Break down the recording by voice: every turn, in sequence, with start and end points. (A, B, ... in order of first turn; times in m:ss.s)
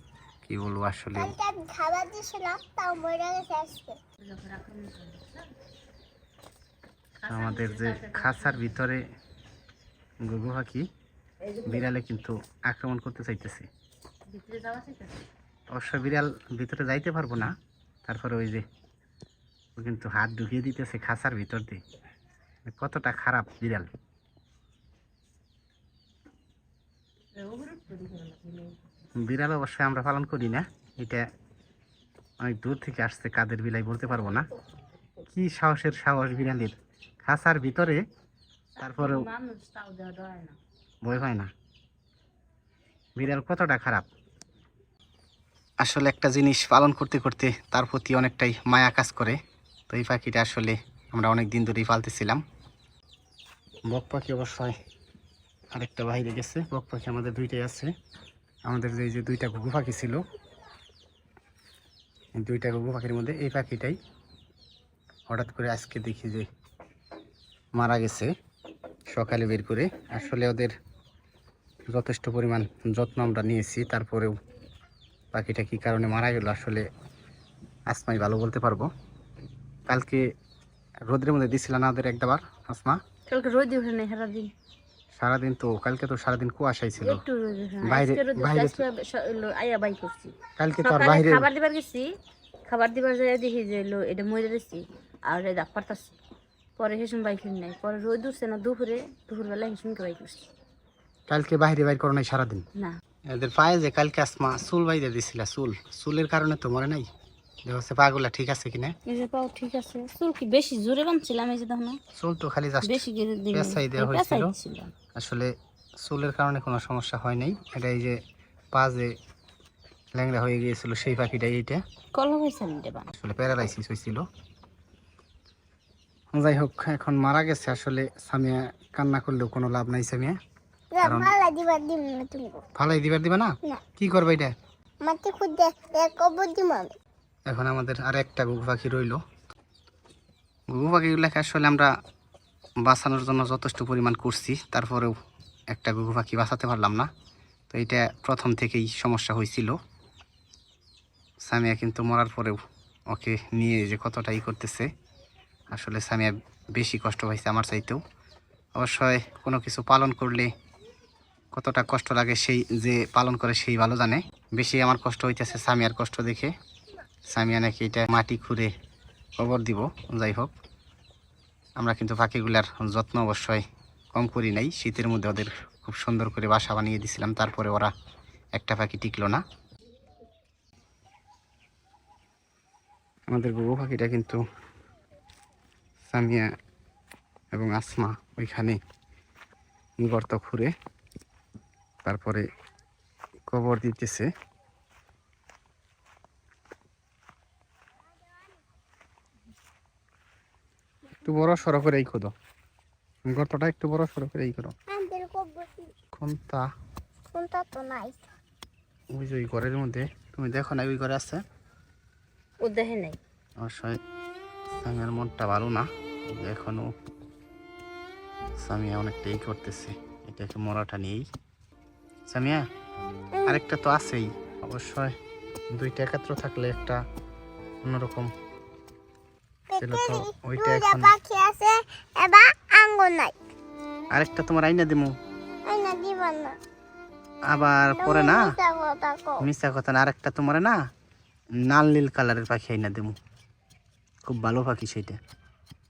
0:00.4-0:01.4 A
0:01.2-0:04.0 B
0:04.2-0:05.5 C
0:07.2-0:08.8 C
0:07.3-0:09.0 A
0:10.2-0:10.9 A
0:11.5-0:11.9 C
0:11.6-0:13.7 A
0:14.3-0:15.2 C
0:15.7-0:17.5 A
0:18.1-0:18.6 A
0:19.8-0:21.8 A
0:22.7-0:23.9 A
0:27.4-0:28.8 C
0:29.2-0:31.3 A
0:32.4-0:34.5 A
0:35.3-0:38.0 A
0:38.8-0:40.6 C
0:38.8-0:39.3 A
0:41.0-0:41.5 A
0:43.2-0:44.0 A
0:45.8-0:49.4 A
0:49.9-0:52.4 A
0:53.9-0:54.8 A
0:55.7-0:57.9 A
0:58.6-1:00.2 A
1:02.4-1:04.0 A
1:05.3-1:06.5 A
1:07.8-1:08.3 A
1:09.1-1:10.8 A
1:11.9-1:14.4 A
1:15.3-1:16.9 A
1:17.9-1:18.9 A
1:19.9-1:20.2 A
1:21.1-1:23.0 A
1:23.3-1:24.5 C
1:25.1-1:27.2 A
1:27.0-1:32.1 C
1:27.8-1:28.8 A
1:30.6-1:31.5 A
1:32.7-1:36.2 C
1:36.8-1:40.5 C
1:41.3-1:42.7 A
1:43.3-1:47.1 A
1:47.7-1:48.9 A
1:49.0-1:52.0 C
1:52.2-1:54.5 A
1:52.8-1:55.0 C
1:55.1-1:58.2 A
1:58.7-1:59.1 A
2:00.2-2:01.8 A
2:02.1-2:03.1 C
2:03.2-2:04.2 A
2:06.3-2:10.4 A
2:10.9-2:12.6 B
2:11.0-2:11.4 A
2:12.8-2:14.5 A
2:15.0-2:16.9 B
2:17.5-2:19.2 A
2:20.7-2:21.9 A
2:22.8-2:25.2 A
2:25.7-2:27.1 A
2:27.7-2:29.8 A
2:31.5-2:32.6 A
2:33.1-2:34.9 A
2:35.7-2:38.0 A
2:38.8-2:40.5 A
2:41.5-2:46.5 A
2:47.3-2:48.7 A
2:49.4-2:50.5 A
2:51.8-2:57.9 A
2:58.6-2:59.4 A
3:03.3-3:04.4 A
3:06.1-3:06.5 A
3:07.5-3:08.8 A
3:10.0-3:10.7 A
3:12.0-3:12.5 A
3:13.5-3:14.3 A
3:21.2-3:22.3 A
3:23.3-3:24.8 A
3:24.9-3:25.9 B
3:26.1-3:26.6 A
3:27.3-3:28.2 B
3:29.1-3:31.4 A
3:32.6-3:33.2 C
3:33.6-3:34.0 A
3:34.8-3:36.9 A
3:38.6-3:41.3 A
3:42.3-3:42.6 A
3:43.5-3:45.2 A
3:45.7-3:47.0 A
3:47.8-3:48.3 A
3:49.7-3:53.4 B
3:49.8-3:51.2 A
3:54.1-3:55.2 A
3:55.7-3:56.6 B
3:57.5-3:58.5 A
3:58.0-3:59.5 B
3:59.4-4:00.8 A
4:01.6-4:03.2 A
4:04.3-4:05.2 A